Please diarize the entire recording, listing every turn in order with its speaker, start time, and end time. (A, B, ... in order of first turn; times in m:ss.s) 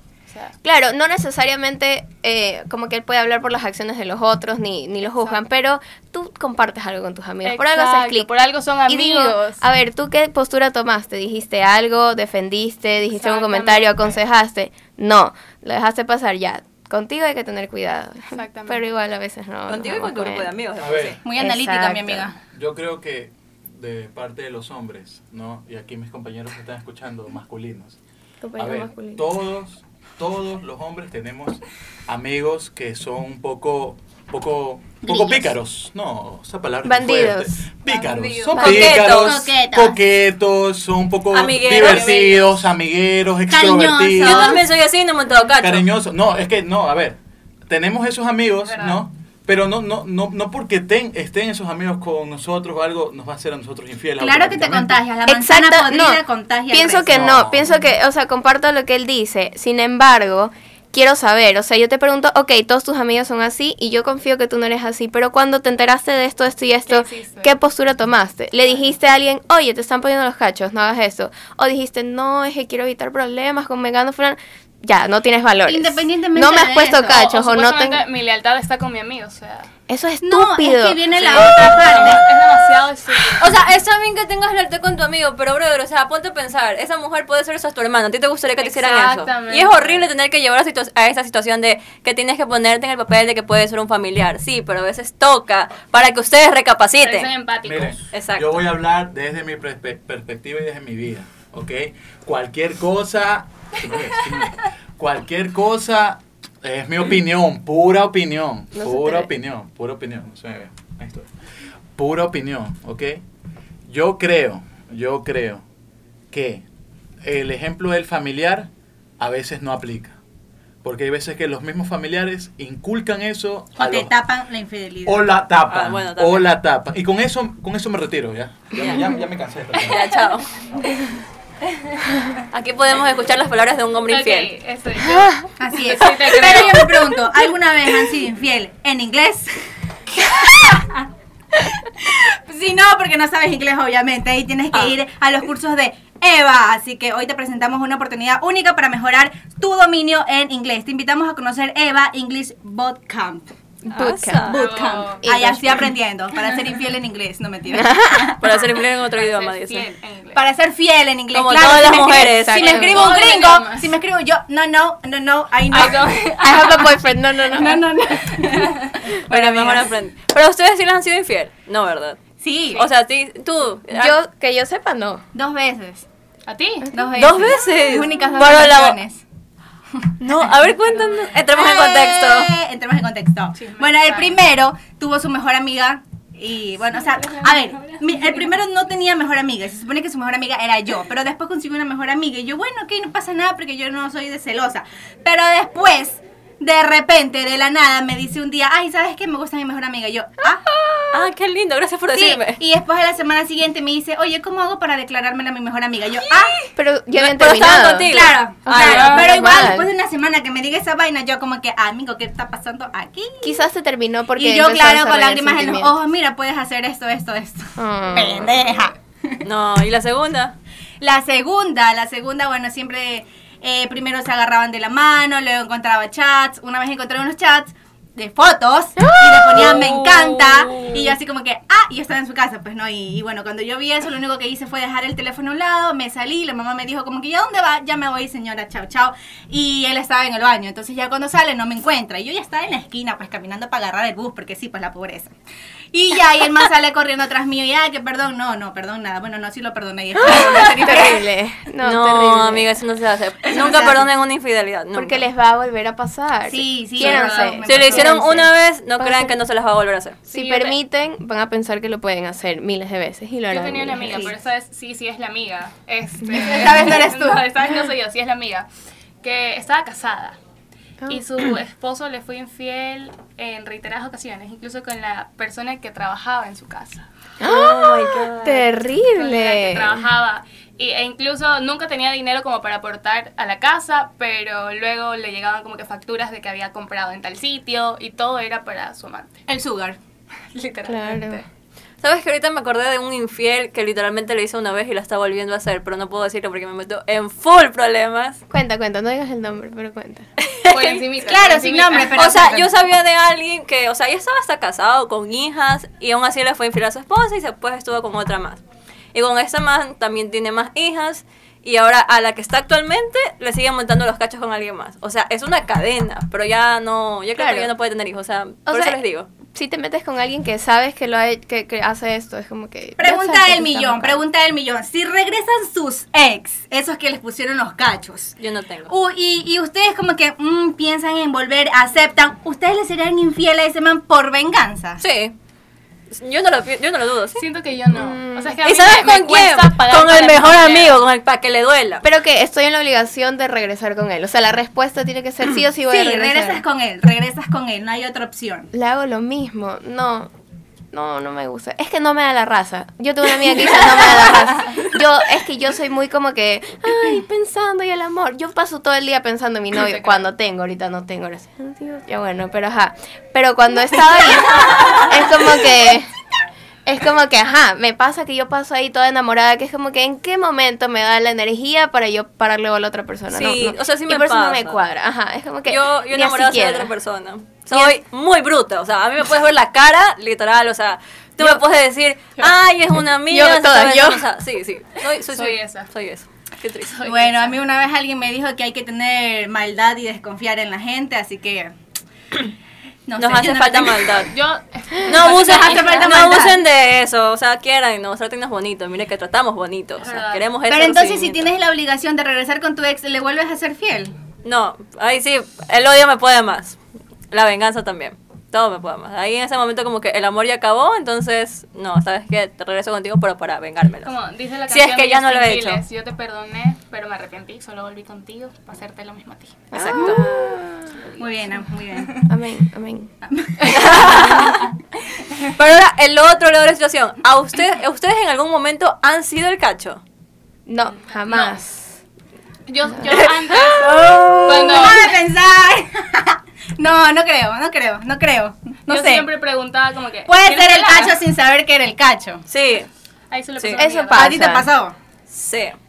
0:00.3-0:00.5 A
0:00.6-0:08.3 B
0:05.1-0:05.4 A
0:07.4-0:09.6 A
0:08.9-0:20.5 B
0:13.1-0:14.1 A
0:18.3-0:18.8 A
0:19.7-0:21.2 C
0:20.8-0:21.2 D
0:21.2-0:22.3 E
0:21.4-0:22.3 B
0:22.5-0:28.0 D
0:28.4-0:29.2 B
0:28.6-0:44.6 D
0:35.0-0:35.5 E
0:36.8-0:37.6 B
0:37.8-0:39.0 A
0:38.6-0:38.9 B
0:38.6-0:39.4 C
0:38.7-0:40.0 E
0:41.3-0:42.4 C
0:41.7-0:42.4 A
0:43.5-0:44.6 E
0:44.2-0:45.8 C
0:45.6-0:55.0 D
0:48.6-0:49.0 A
0:54.2-0:57.2 E
0:55.3-1:18.0 B
0:57.1-0:57.7 D
1:06.9-1:07.5 A
1:15.7-1:17.2 E
1:17.0-1:19.7 A
1:19.9-1:21.7 B
1:20.2-1:22.2 E
1:21.2-1:23.6 A
1:21.3-1:22.1 C
1:23.4-1:37.3 C
1:28.6-1:30.1 A
1:37.0-1:38.0 A
1:37.6-1:51.3 D
1:38.1-1:38.6 C
1:48.8-1:49.3 B
1:52.0-1:53.2 D
1:53.9-1:55.6 D
1:56.3-1:56.6 D
1:57.2-2:00.2 D
2:00.8-2:04.1 D
2:03.8-2:05.3 E
2:05.0-2:10.0 D
2:05.7-2:06.5 C
2:09.8-2:10.5 C
2:09.9-2:10.2 A
2:12.5-2:14.5 C
2:14.1-2:15.3 A
2:15.6-2:19.6 E
2:15.8-2:17.0 A
2:15.9-2:16.9 C
2:20.2-2:33.5 E
2:33.8-2:34.6 B
2:33.9-2:34.6 C
2:34.5-2:38.4 E
2:34.5-2:35.2 A
2:35.2-2:35.9 B
2:37.7-2:38.4 B
2:38.4-2:39.9 C
2:39.1-2:40.4 A
2:40.3-2:46.8 E
2:41.3-2:42.7 C
2:42.4-2:43.1 B
2:42.6-2:43.9 A
2:45.7-2:46.9 A
2:46.4-2:47.8 B
2:47.4-2:49.9 E
2:49.3-2:52.2 C
2:52.4-2:52.8 E
2:52.7-2:54.1 C
2:53.9-2:55.2 B
2:55.3-2:56.0 E
2:56.5-2:56.9 A
2:56.9-2:59.2 E
2:57.2-2:59.0 C
3:00.2-3:02.5 C
3:01.5-3:20.6 E
3:03.6-3:04.4 A
3:06.9-3:08.5 A
3:21.1-3:22.6 C
3:22.1-3:26.6 E
3:26.2-3:29.3 C
3:26.8-3:29.9 B
3:28.1-3:33.6 E
3:28.9-3:29.3 A
3:33.4-3:36.0 B
3:34.3-3:39.4 E
3:37.8-3:38.6 B
3:39.4-3:40.6 C
3:41.0-4:05.3 E
3:49.0-3:50.3 B
4:05.9-4:11.2 E
4:10.2-4:12.7 B
4:11.8-4:15.2 C
4:13.5-4:14.0 B
4:14.9-4:19.4 B
4:16.5-4:18.2 E
4:17.0-4:17.5 A
4:17.6-4:20.2 C
4:20.3-4:24.4 B
4:20.3-4:20.8 A
4:23.5-4:28.7 A
4:26.3-4:27.5 E
4:29.2-4:30.4 A
4:31.1-4:37.0 A
4:37.4-4:40.0 B
4:37.4-4:38.6 C
4:39.1-4:49.4 A
4:49.5-4:50.0 E
4:50.5-4:51.4 A
4:50.9-4:51.4 B
4:52.0-4:58.4 C
4:58.5-5:00.3 B
5:00.4-5:01.0 C
5:00.7-5:02.2 A
5:01.2-5:02.7 E
5:02.1-5:08.6 C
5:09.1-5:19.3 C
5:17.4-5:17.7 B
5:18.6-5:19.0 B
5:19.5-5:24.2 B
5:23.0-5:28.3 E
5:28.4-5:28.9 C
5:28.9-5:35.0 E
5:35.0-5:35.3 C
5:36.1-5:37.4 C
5:37.4-5:41.0 A
5:37.9-5:38.6 B
5:38.6-5:42.0 C
5:42.0-5:46.6 B
5:45.9-5:48.7 E
5:48.7-5:50.3 B
5:50.9-6:06.1 B
5:59.7-6:00.2 A
6:06.8-6:16.9 B
6:13.3-6:14.8 C
6:15.7-6:27.0 C
6:17.7-6:18.0 B
6:23.2-6:24.2 B
6:25.3-6:25.9 A
6:26.9-6:27.6 A
6:27.0-6:31.7 E
6:33.1-6:34.2 E
6:33.2-6:34.3 C
6:34.3-6:36.1 A
6:35.0-6:41.4 C
6:35.1-6:36.6 E
6:40.0-6:40.4 A
6:40.7-6:44.1 E
6:44.4-6:46.8 C
6:47.3-6:54.1 C
6:54.0-6:59.7 A
6:54.7-6:55.8 C
6:59.7-7:00.9 B
6:59.7-7:00.2 C
7:01.2-7:02.2 E
7:02.2-7:03.1 B
7:03.3-7:04.4 E
7:03.7-7:04.6 C
7:05.5-7:10.0 C
7:10.7-7:12.0 B
7:11.1-7:11.6 A
7:12.7-7:15.1 A
7:13.1-7:15.0 C
7:14.5-7:19.3 E
7:18.9-7:21.2 A
7:20.2-7:22.4 E
7:22.5-7:22.9 C
7:23.3-7:24.4 A
7:23.8-7:24.7 B
7:24.1-7:24.9 E
7:25.3-7:25.7 C